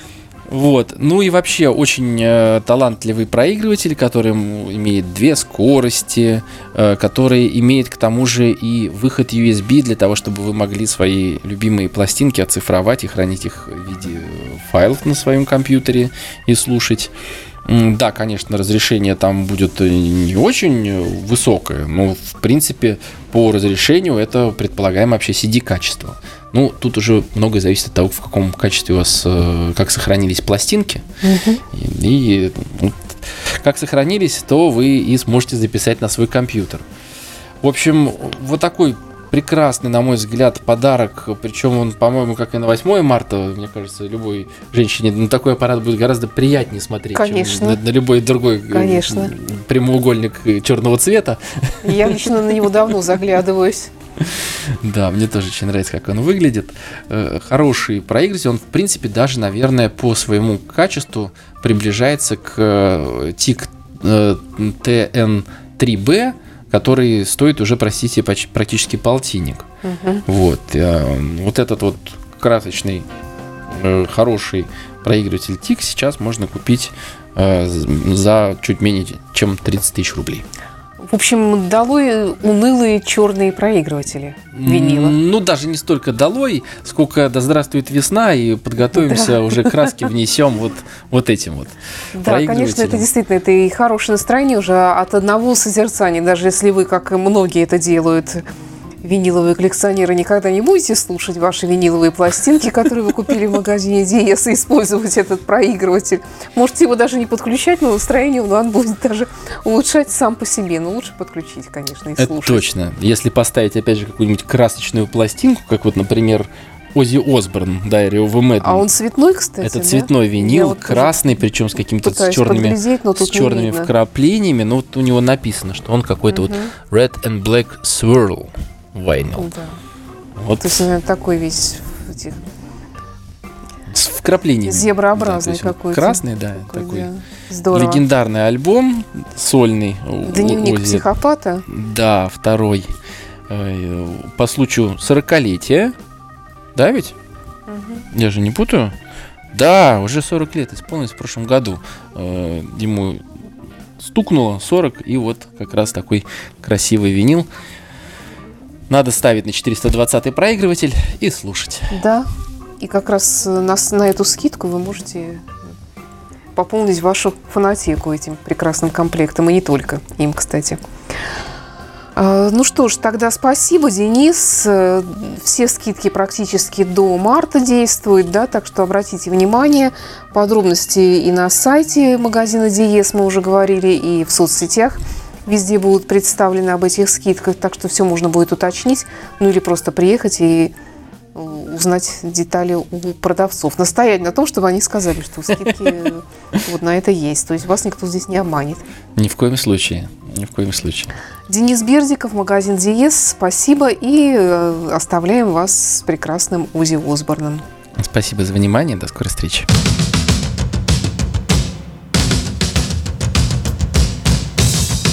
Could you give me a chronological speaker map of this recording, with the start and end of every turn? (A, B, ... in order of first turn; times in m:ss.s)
0:00.5-0:17.1 A
0:17.6-0:31.0 A
0:31.2-0:31.6 B
0:31.7-0:36.9 A
0:37.6-0:52.7 A
0:47.2-0:47.8 B
0:48.7-0:49.3 B
0:51.8-0:53.9 B
0:54.2-1:09.7 A
1:09.8-1:10.2 B
1:10.3-1:13.1 A
1:13.7-1:20.4 A
1:21.1-1:25.2 B
1:24.5-1:33.1 A
1:28.9-1:29.8 B
1:32.2-1:38.4 B
1:39.0-1:52.6 B
1:52.2-1:58.9 A
1:58.6-2:01.4 B
1:59.6-2:09.5 A
2:02.0-2:03.9 B
2:06.3-2:06.7 B
2:09.4-2:09.8 B
2:10.4-2:10.8 A
2:10.6-2:12.4 B
2:13.9-2:17.1 A
2:14.6-2:18.0 B
2:17.7-2:21.1 A
2:20.2-2:21.6 B
2:21.7-2:22.9 A
2:23.5-2:26.0 A
2:26.8-2:27.2 A
2:27.7-2:28.0 B
2:28.1-2:29.0 A
2:29.5-2:33.2 A
2:34.0-2:37.5 A
2:38.9-2:42.0 A
2:41.9-2:42.3 B
2:42.8-2:45.5 B
2:46.6-2:50.8 B
2:52.2-3:10.7 B
3:11.4-3:18.8 B
3:15.6-3:16.1 A
3:19.2-3:21.1 A
3:21.5-3:27.6 B
3:28.0-3:29.7 A